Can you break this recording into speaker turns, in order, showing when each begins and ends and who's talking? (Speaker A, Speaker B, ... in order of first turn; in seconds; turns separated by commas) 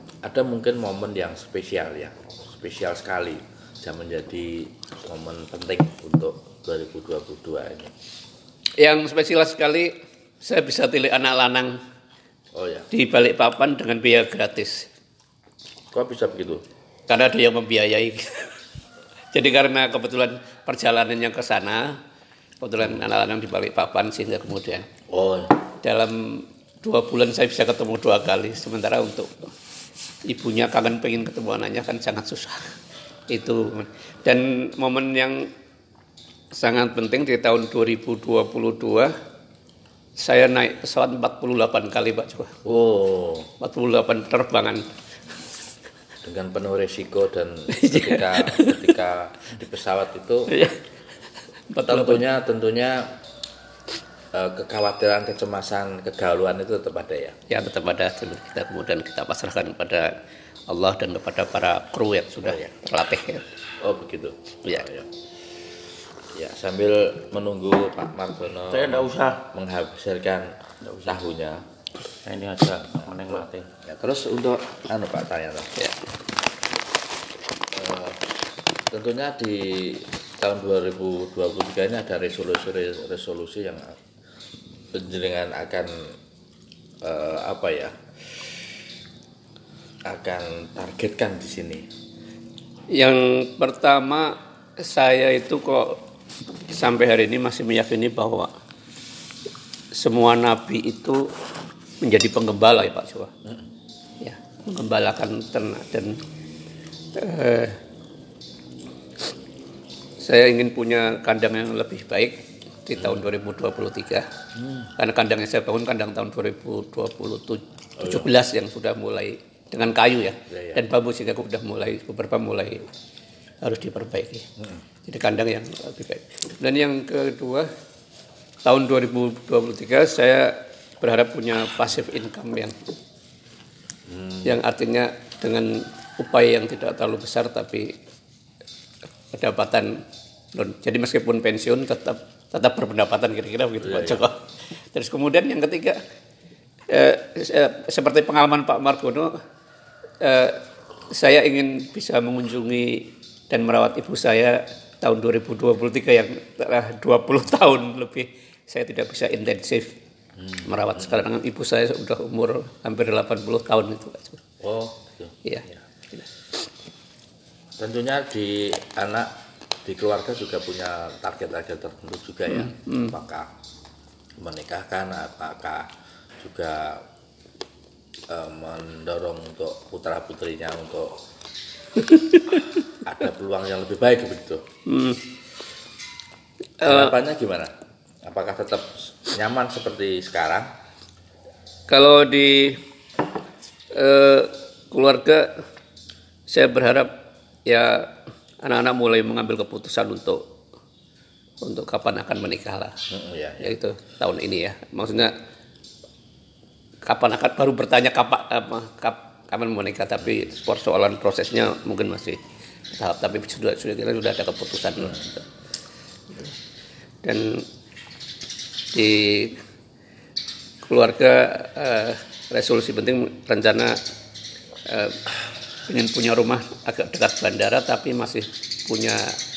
Speaker A: 0.2-7.9, Speaker B: 8.8-11.8, Speaker A: 12.5-12.9, Speaker B: 12.9-14.9, Speaker A: 15.9-16.6, Speaker B: 17.1-18.5, Speaker B: 19.3-22.0, Speaker B: 22.6-24.9, Speaker A: 25.1-25.5, Speaker B: 25.8-29.5, Speaker B: 30.3-32.7, Speaker B: 33.3-35.5, Speaker B: 36.5-39.1, Speaker B: 40.2-42.5, Speaker A: 42.6-43.5, Speaker B: 43.6-44.9, Speaker A: 46.2-50.5, Speaker B: 47.7-49.0, Speaker B: 50.5-50.8, Speaker B: 51.7-52.2, Speaker A: 51.8-53.1, Speaker A: 54.3-57.4, Speaker B: 57.5-60.1, Speaker B: 60.7-63.5, Speaker A: 62.4-62.7, Speaker A: 63.8-65.1, Speaker A: 66.3-71.6, Speaker C: 68.7-69.5, Speaker C: 70.8-71.2, Speaker C: 72.2-73.7, Speaker A: 73.8-75.7, Speaker A: 77.7-78.2, Speaker A: 78.9-83.9, Speaker A: 84.9-86.1, Speaker A: 87.0-87.9, Speaker A: 90.1-91.8, Speaker B: 92.9-96.0, Speaker B: 96.7-98.5, Speaker B: 99.9-101.3, Speaker B: 102.0-103.3, Speaker B: 104.2-106.2, Speaker B: 107.1-107.8, Speaker B: 110.2-114.3, Speaker A: 113.0-113.2, Speaker A: 114.5-114.9, Speaker B: 115.0-122.8, Speaker A: 118.0-118.3, Speaker A: 120.5-120.8, Speaker B: 123.6-124.5, Speaker B: 125.0-127.7, Speaker B: 128.6-132.7, Speaker A: 134.1-134.6, Speaker B: 134.4-137.9, Speaker B: 139.3-140.0, Speaker B: 140.5-144.4, Speaker A: 143.8-144.3, Speaker B: 144.9-146.0, Speaker B: 146.9-149.3, Speaker B: 150.2-159.9, Speaker A: 160.4-161.2, Speaker B: 160.6-164.4, Speaker A: 164.6-165.8, Speaker B: 165.4-166.3, Speaker A: 167.8-169.3, Speaker A: 169.8-173.5, Speaker B: 172.5-173.1, Speaker A: 174.4-175.9, Speaker A: 176.4-177.0, Speaker A: 178.3-181.2, Speaker B: 182.1-182.7, Speaker A: 182.9-184.6, Speaker B: 184.8-185.2, Speaker B: 186.8-187.1, Speaker A: 186.8-187.7, Speaker A: 188.2-190.7, Speaker B: 191.9-192.8, Speaker B: 193.9-195.5, Speaker B: 196.5-197.1, Speaker B: 197.7-200.5, Speaker B: 201.6-203.0, Speaker A: 203.1-203.8, Speaker B: 203.6-205.3, Speaker B: 207.0-212.4, Speaker B: 212.9-215.4, Speaker B: 217.2-217.7, Speaker B: 218.9-219.6, Speaker B: 220.8-224.0, Speaker B: 224.8-225.2, Speaker B: 225.9-229.3